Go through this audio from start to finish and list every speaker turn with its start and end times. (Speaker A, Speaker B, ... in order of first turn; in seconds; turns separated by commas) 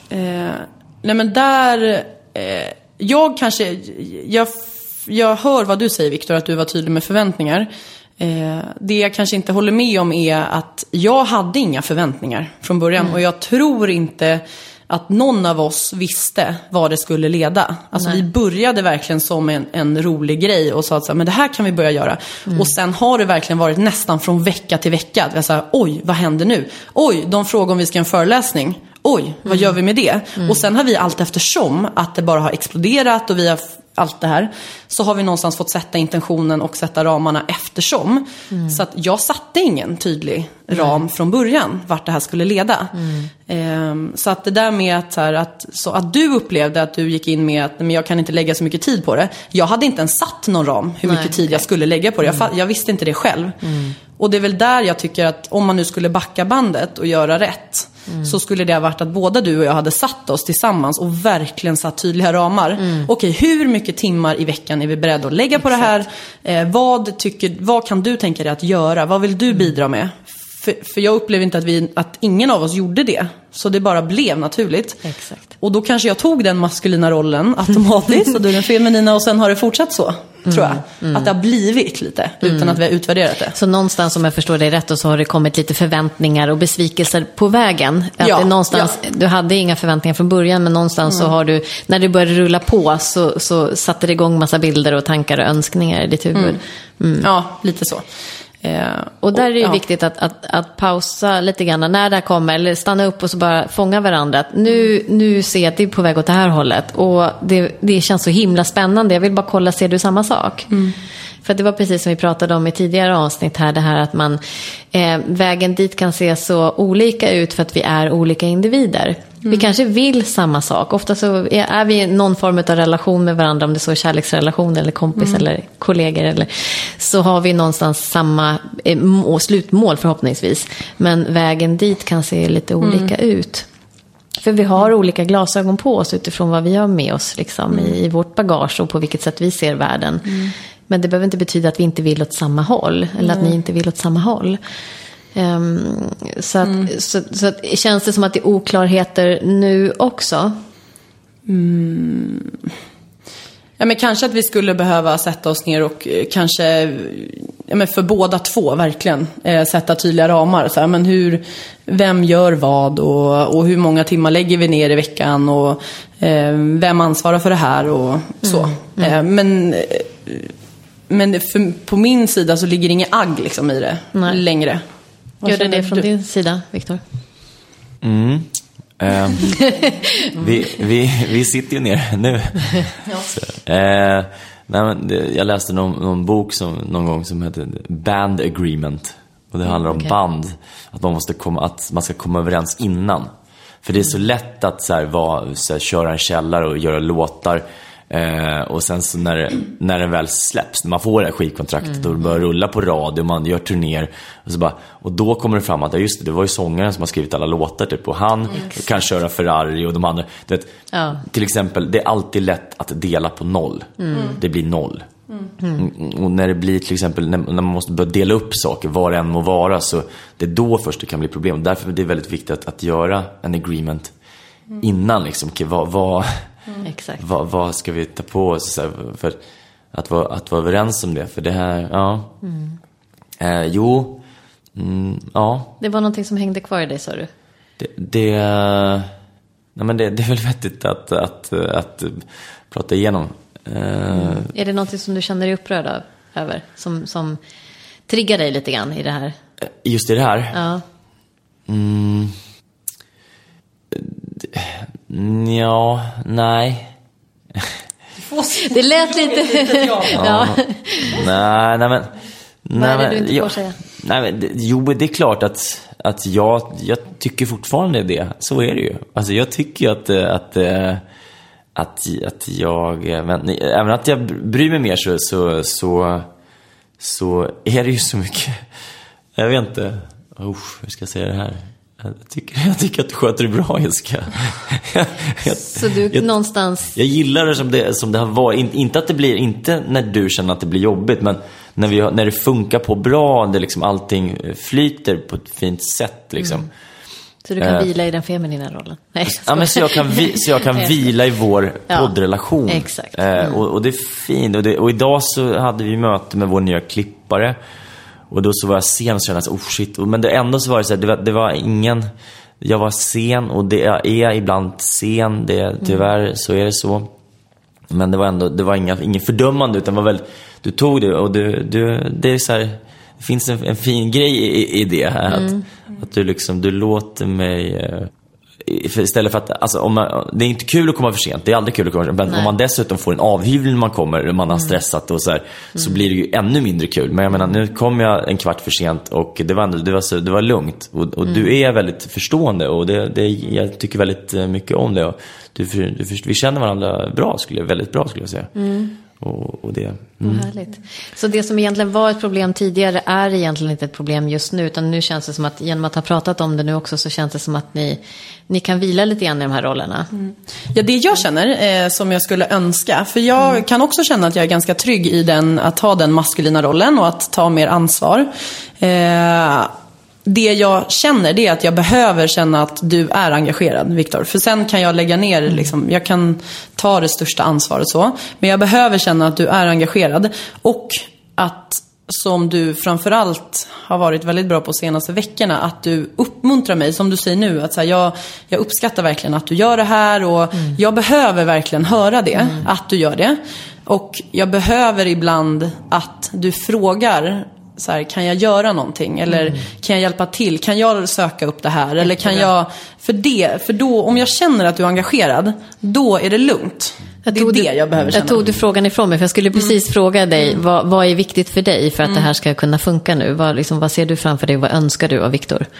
Speaker A: 0.1-42.9, Speaker B: 17.9-18.2, Speaker B: 29.4-29.7, Speaker B: 38.5-38.8, Speaker B: 40.7-41.0, Speaker B: 43.0-43.3, Speaker A: 43.5-53.6, Speaker B: 51.0-51.6, Speaker B: 53.6-53.9, Speaker A: 54.1-75.0, Speaker B: 58.1-58.3, Speaker B: 62.8-63.1, Speaker B: 65.6-65.9, Speaker B: 75.0-75.4, Speaker A: 75.6-83.5, Speaker B: 80.5-81.3, Speaker B: 82.4-82.8, Speaker B: 83.5-97.3, Speaker A: 88.2-88.9, Speaker A: 91.1-91.3, Speaker A: 96.3-96.6, Speaker A: 97.2-98.0, Speaker A: 98.6-99.8, Speaker B: 99.2-110.7, Speaker A: 110.7-110.9, Speaker B: 111.4-114.4, Speaker B: 114.9-133.7, Speaker A: 125.2-125.4, Speaker A: 132.8-133.1, Speaker B: 134.4-140.4, Speaker A: 137.7-137.9, Speaker A: 140.2-140.5, Speaker B: 140.9-144.6, Speaker A: 143.2-143.5, Speaker B: 145.3-150.6, Speaker A: 146.6-146.9, Speaker A: 151.5-152.7, Speaker A: 153.8-170.5, Speaker B: 168.4-169.2, Speaker A: 171.1-174.8, Speaker B: 174.1-174.4, Speaker A: 175.4-176.1, Speaker B: 175.4-177.0, Speaker C: 178.0-179.6, Speaker B: 179.6-180.4, Speaker C: 180.3-193.3, Speaker A: 183.1-183.3, Speaker C: 193.8-215.1, Speaker B: 210.9-211.2, Speaker B: 214.0-214.4, Speaker A: 214.1-214.4, Speaker B: 215.6-215.8, Speaker C: 215.7-224.1, Speaker C: 224.8-226.5, Speaker B: 226.8-227.2, Speaker C: 227.2-229.4, Speaker C: 229.9-232.3, Speaker B: 232.4-232.8, Speaker C: 233.4-234.2, Speaker C: 234.7-235.7, Speaker B: 235.8-237.3, Speaker C: 237.8-239.1, Speaker C: 239.8-244.5, Speaker B: 244.1-247.4, Speaker B: 248.1-249.3, Speaker C: 249.8-250.6, Speaker B: 250.5-250.8, Speaker C: 251.7-252.3, Speaker C: 253.9-256.9, Speaker A: 258.2-260.3, Speaker B: 258.6-261.2, Speaker C: 260.1-262.1, Speaker C: 262.6-271.0, Speaker B: 262.8-263.8, Speaker C: 271.7-276.3, Speaker C: 277.0-278.6, Speaker C: 279.4-286.3, Speaker B: 285.5-286.9, Speaker C: 286.9-296.7, Speaker B: 296.4-296.6, Speaker B: 297.4-300.9, Speaker C: 297.6-297.9, Speaker C: 299.2-307.6, Speaker B: 302.7-303.6, Speaker C: 308.3-312.1, Speaker C: 312.6-317.1, Speaker C: 317.9-328.1, Speaker B: 325.3-325.6, Speaker C: 328.6-350.5, Speaker B: 332.3-332.5, Speaker B: 335.8-336.0, Speaker B: 348.6-348.9, Speaker B: 350.2-360.1, Speaker A: 360.1-369.7, Speaker A: 370.2-408.4, Speaker B: 392.4-392.6, Speaker B: 399.3-399.6, Speaker B: 407.3-415.7